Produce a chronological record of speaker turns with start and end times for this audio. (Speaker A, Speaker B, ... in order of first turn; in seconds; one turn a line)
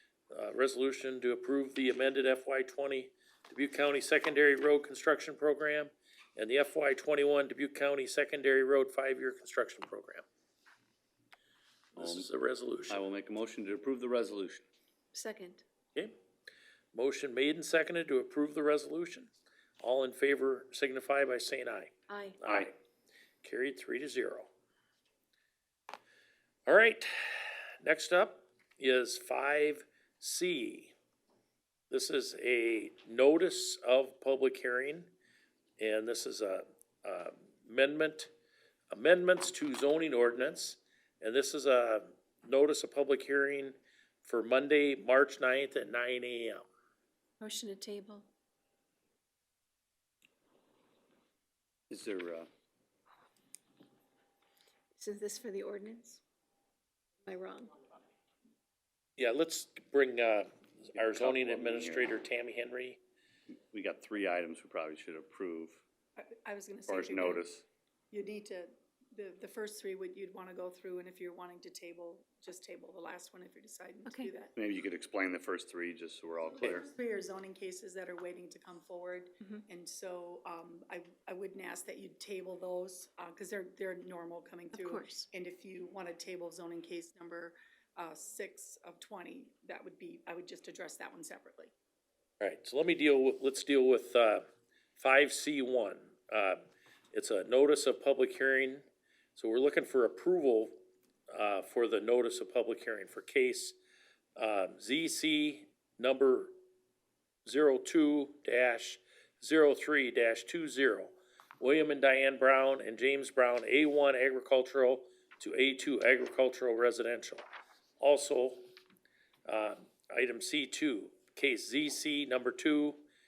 Speaker A: 0.3-10.2
Speaker A: 11.9-13.0
Speaker B: 12.0-12.3
Speaker B: 12.9-14.7
Speaker C: 15.1-15.6
Speaker A: 16.9-22.7
Speaker C: 22.1-22.4
Speaker A: 23.4-24.5
Speaker A: 26.7-30.9
Speaker A: 31.9-35.1
Speaker A: 35.8-38.3
Speaker A: 38.9-46.7
Speaker C: 47.4-48.3
Speaker B: 51.9-52.5
Speaker C: 55.0-56.2
Speaker C: 57.2-57.9
Speaker A: 59.2-63.0
Speaker B: 60.9-62.1
Speaker B: 63.7-65.8
Speaker D: 66.2-67.5
Speaker B: 66.9-67.6
Speaker D: 68.1-74.5
Speaker C: 74.1-74.3
Speaker B: 74.5-76.9
Speaker D: 76.6-91.7
Speaker C: 84.7-85.3
Speaker A: 92.4-94.4
Speaker A: 95.0-96.6
Speaker A: 97.1-98.8
Speaker A: 99.4-100.8
Speaker A: 101.3-103.8
Speaker A: 104.4-106.5
Speaker A: 107.5-117.4
Speaker A: 118.0-118.6
Speaker A: 119.5-123.0